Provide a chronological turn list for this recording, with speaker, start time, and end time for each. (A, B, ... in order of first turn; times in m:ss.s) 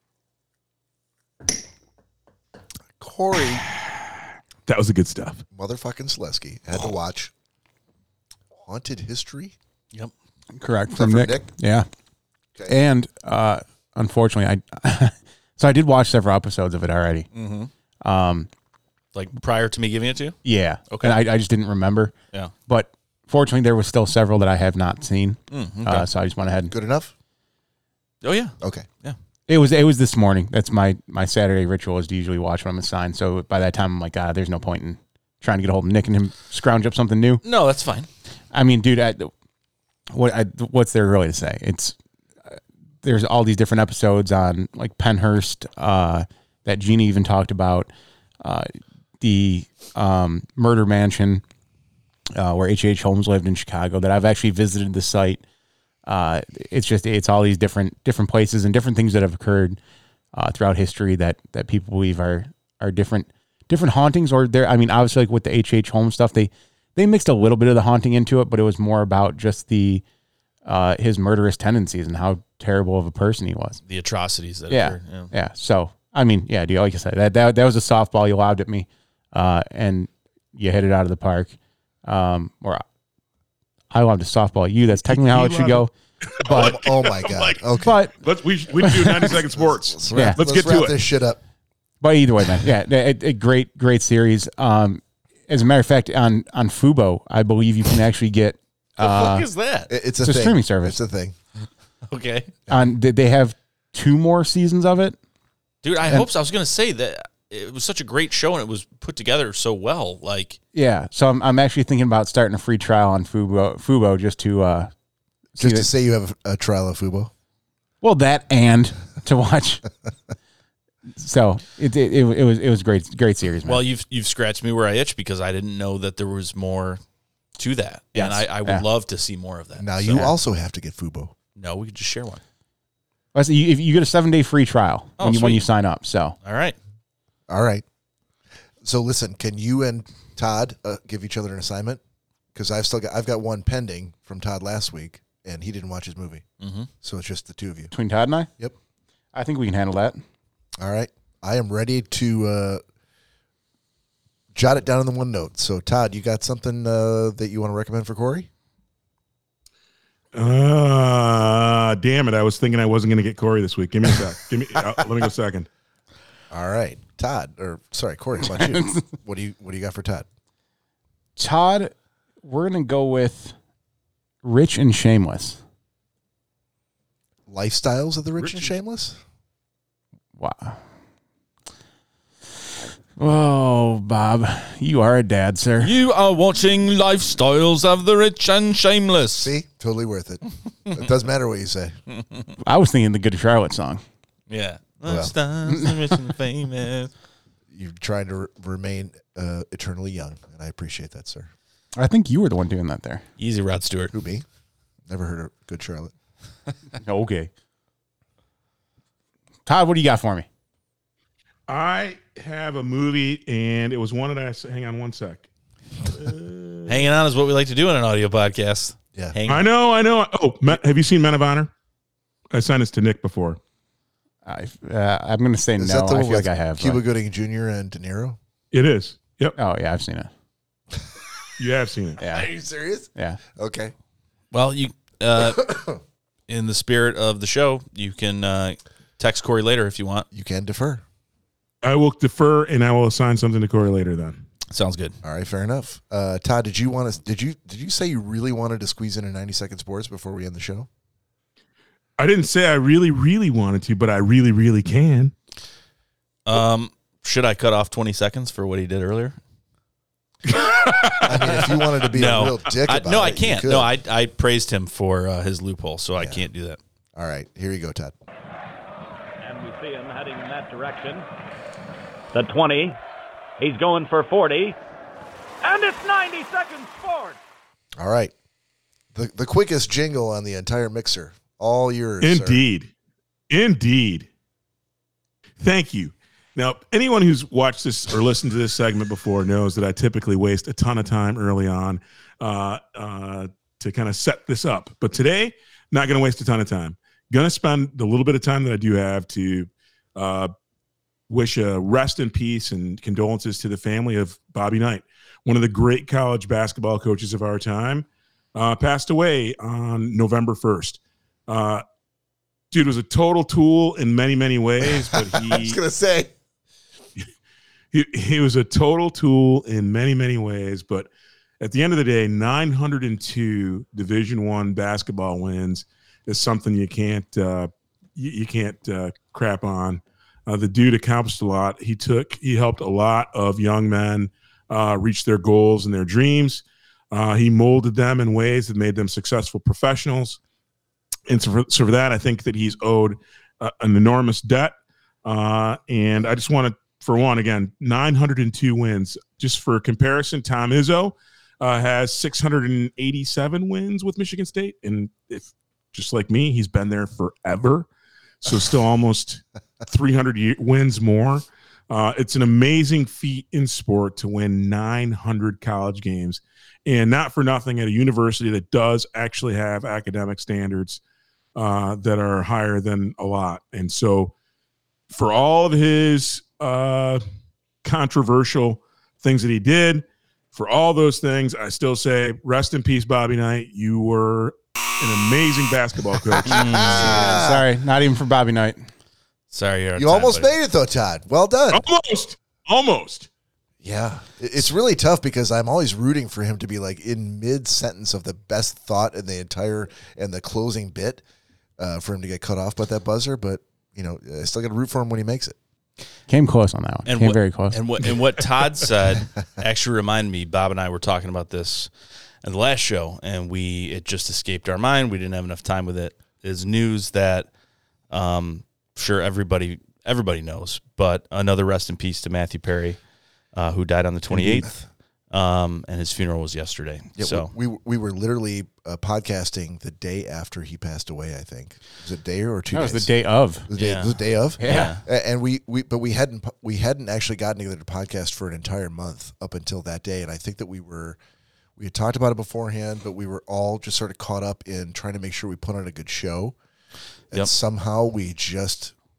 0:03.0-0:03.6 A
0:04.6-0:05.4 B
0:05.5-0:07.3 A
0:08.5-0:09.5 A
0:10.5-0:11.9 C
0:10.9-0:11.5 A
0:12.7-0:17.3 C
0:17.3-0:17.7 D
0:18.0-0:18.5 C
0:19.1-0:20.4 D
0:20.4-0:22.1 C
0:20.9-0:21.2 D
0:22.7-0:26.7 C
0:25.5-0:26.1 D
0:26.7-0:27.1 A
0:28.2-0:29.2 D
0:28.6-0:28.9 A
0:29.5-0:37.4 C
0:37.4-0:38.1 D
0:38.5-0:39.3 C
0:40.1-0:42.0 C
0:42.5-0:47.9 C
0:48.4-0:51.4 C
0:52.3-0:55.4 C
0:56.0-0:59.8 C
1:00.3-1:10.0 C
1:10.6-1:13.8 C
1:13.9-1:15.3 D
1:14.7-1:22.8 C
1:23.9-1:25.9 C
1:25.1-1:27.6 B
1:26.4-1:28.0 A
1:26.4-1:26.7 C
1:27.8-1:28.1 C
1:28.2-1:31.0 B
1:28.8-1:29.3 C
1:29.5-1:31.4 A
1:30.1-1:30.4 C
1:32.0-1:39.4 C
1:39.0-1:39.9 D
1:39.9-1:41.4 A
1:40.2-1:41.0 C
1:42.1-1:42.5 D
1:42.7-1:45.2 C
1:45.8-1:50.6 D
1:50.7-1:54.9 C
1:55.6-1:55.9 C
1:55.6-1:57.3 A
1:58.0-1:59.8 C
2:01.2-2:03.8 C
2:03.6-2:07.0 D
2:07.6-2:10.3 D
2:08.1-2:08.8 C
2:09.8-2:11.3 A
2:11.6-2:12.4 D
2:13.3-2:16.4 C
2:15.2-2:15.6 D
2:16.4-2:16.8 D
2:17.5-2:17.8 A
2:18.8-2:22.0 A
2:22.5-2:26.4 A
2:26.6-2:26.9 D
2:27.0-2:27.9 A
2:27.9-2:28.5 C
2:29.3-2:30.2 C
2:30.8-2:32.8 A
2:34.5-2:38.5 A
2:40.3-2:45.7 B
2:46.5-2:50.2 A
2:48.6-2:49.0 C
2:51.4-2:53.5 C
2:54.4-2:55.6 C
2:57.5-2:59.2 A
3:00.4-3:00.8 C
3:03.2-3:05.9 C
3:05.8-3:09.5 D
3:09.4-3:11.9 A
3:12.6-3:14.0 C
3:14.5-3:17.1 D
3:15.0-3:15.3 A
3:17.7-3:21.5 A
3:22.0-3:23.2 C
3:23.4-3:24.1 D
3:24.1-3:24.4 A
3:25.1-3:26.1 A
3:27.0-3:27.5 C
3:29.6-3:30.4 C
3:31.7-3:35.5 B
3:36.0-3:37.0 B
3:36.8-3:39.7 D
3:39.5-3:41.7 B
3:42.5-3:43.6 B
3:44.4-3:47.0 C
3:45.8-3:48.4 A
3:48.7-3:49.6 B
3:49.6-3:50.3 C
3:51.6-3:52.2 B
3:52.2-3:52.5 C
3:52.2-3:53.9 A
3:54.5-3:55.7 D
3:55.4-3:56.0 A
3:56.5-4:00.2 D
4:00.3-4:01.0 A
4:01.8-4:04.4 B
4:04.7-4:05.2 D
4:05.2-4:10.9 A
4:12.2-4:15.3 B
4:16.4-4:19.4 D
4:20.4-4:21.6 B
4:21.2-4:23.9 A
4:21.5-4:26.8 D
4:26.2-4:26.4 A
4:27.1-4:28.1 A
4:29.4-4:31.3 E
4:32.3-4:33.0 E
4:33.6-4:34.8 E
4:35.6-4:37.4 E
4:38.0-4:38.3 A
4:39.1-4:42.6 A
4:42.2-4:42.9 B
4:43.5-4:44.3 B
4:45.6-5:00.5 B
5:01.3-5:11.8 B
5:12.7-5:15.8 B
5:14.8-5:16.3 A
5:17.9-5:21.1 B
5:21.6-5:40.4 B
5:41.3-5:57.9 B
5:58.4-6:11.0 B
6:11.5-6:14.3 B
6:15.1-6:17.2 B
6:17.8-6:26.8 B
6:26.3-6:27.6 A
6:26.4-6:27.4 D
6:26.9-6:28.8 C
6:29.5-6:30.5 D
6:30.0-6:31.8 A
6:31.7-6:33.3 B
6:33.8-6:41.2 A
6:41.8-6:45.6 A
6:46.3-6:47.8 C
6:47.0-6:51.9 D
6:52.4-6:57.5 D
6:58.1-7:03.0 D
7:03.5-7:04.8 D
7:04.3-7:04.8 A
7:05.3-7:07.5 D
7:07.2-7:13.1 A
7:12.7-7:13.7 C
7:13.7-7:21.2 A
7:13.8-7:15.0 D
7:14.6-7:14.9 C
7:21.8-7:26.6 A
7:27.3-7:28.9 A